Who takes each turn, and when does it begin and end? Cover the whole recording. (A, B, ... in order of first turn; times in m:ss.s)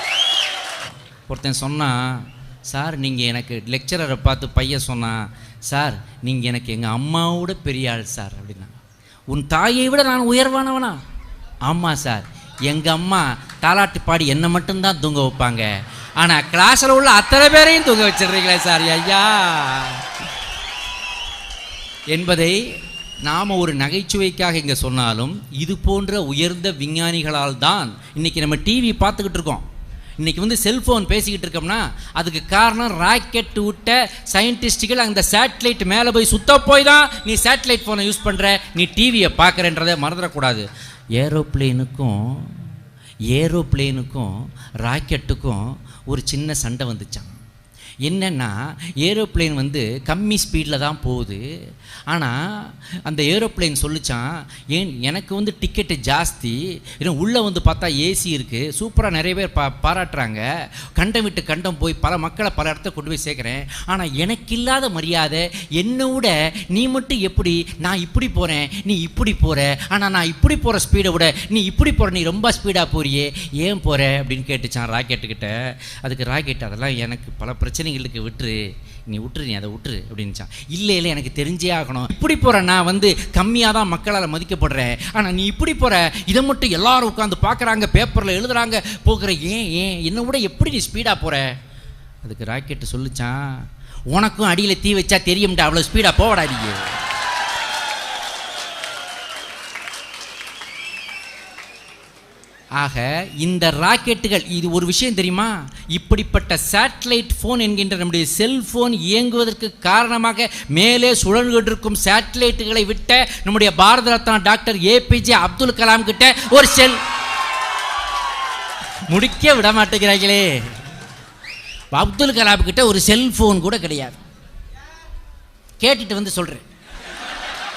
0:01.3-0:08.8 A
0:09.3-0:11.0 A
0:11.7-0:15.7 A
0:16.2-0:20.1 A
0:22.1-0:22.7 A
0:23.2-0:29.6 A
0:30.2-0:40.6 A
0:41.2-0:42.6 A
0:43.3-0:47.4 A
0:48.0-0:51.4 A
0:52.1-1:00.4 A
1:01.0-1:31.5 A
1:32.2-1:37.0 A
1:42.8-1:57.0 A
1:59.1-2:00.6 A
2:01.9-2:04.2 A
2:05.8-2:06.6 A